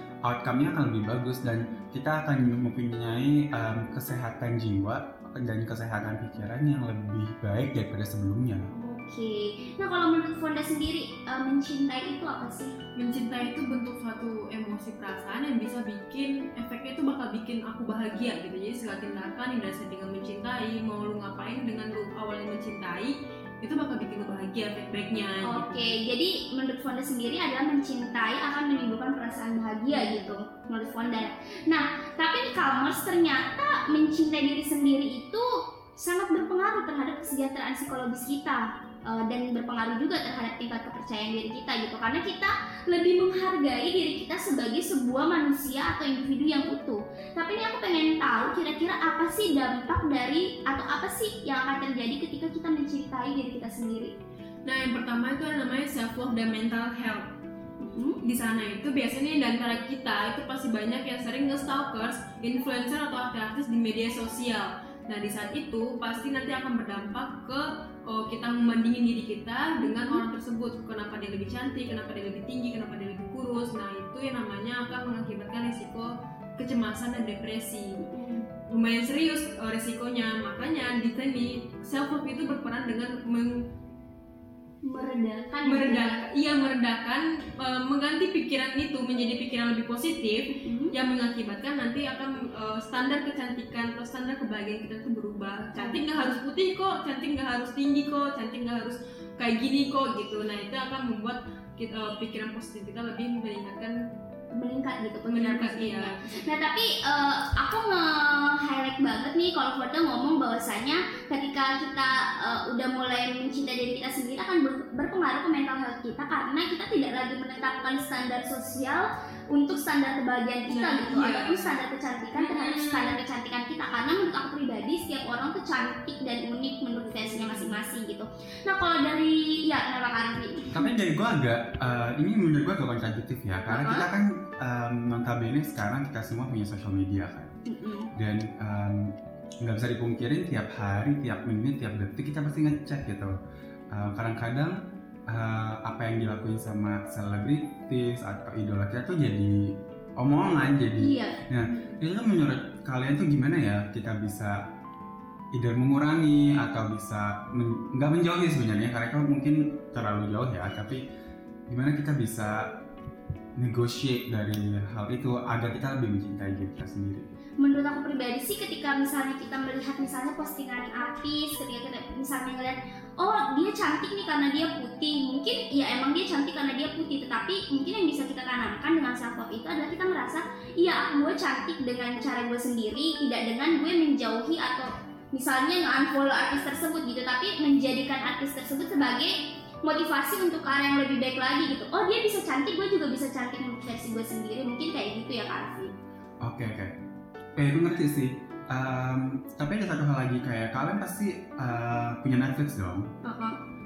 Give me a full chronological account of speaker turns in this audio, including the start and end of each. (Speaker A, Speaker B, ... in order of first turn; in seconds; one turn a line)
Speaker A: 0.2-8.7
Speaker B: 8.7-12.7
Speaker C: 13.0-25.8
Speaker B: 25.4-54.1
Speaker C: 54.7-57.3
Speaker B: 57.8-58.2
Speaker C: 58.2-78.0
Speaker B: 69.8-70.2
Speaker B: 78.0-78.5
Speaker C: 78.7-83.6
Speaker B: 84.8-86.2
Speaker C: 85.7-104.0
Speaker B: 90.5-90.9
Speaker B: 95.8-96.0
Speaker B: 104.5-130.8
Speaker C: 105.3-106.2
Speaker C: 120.7-121.7
Speaker C: 122.3-123.2
Speaker C: 127.4-127.7
Speaker A: 130.7-137.6
Speaker B: 133.7-134.1
Speaker B: 137.7-138.1
Speaker A: 138.2-143.3
Speaker A: 143.9-144.8
Speaker A: 145.3-154.6
Speaker B: 151.0-151.8
Speaker A: 155.5-161.0
Speaker A: 161.7-162.7
Speaker A: 163.6-167.3
Speaker B: 167.6-189.3
Speaker B: 189.8-195.9
Speaker A: 196.4-196.9
Speaker A: 197.6-203.1
Speaker B: 203.2-203.6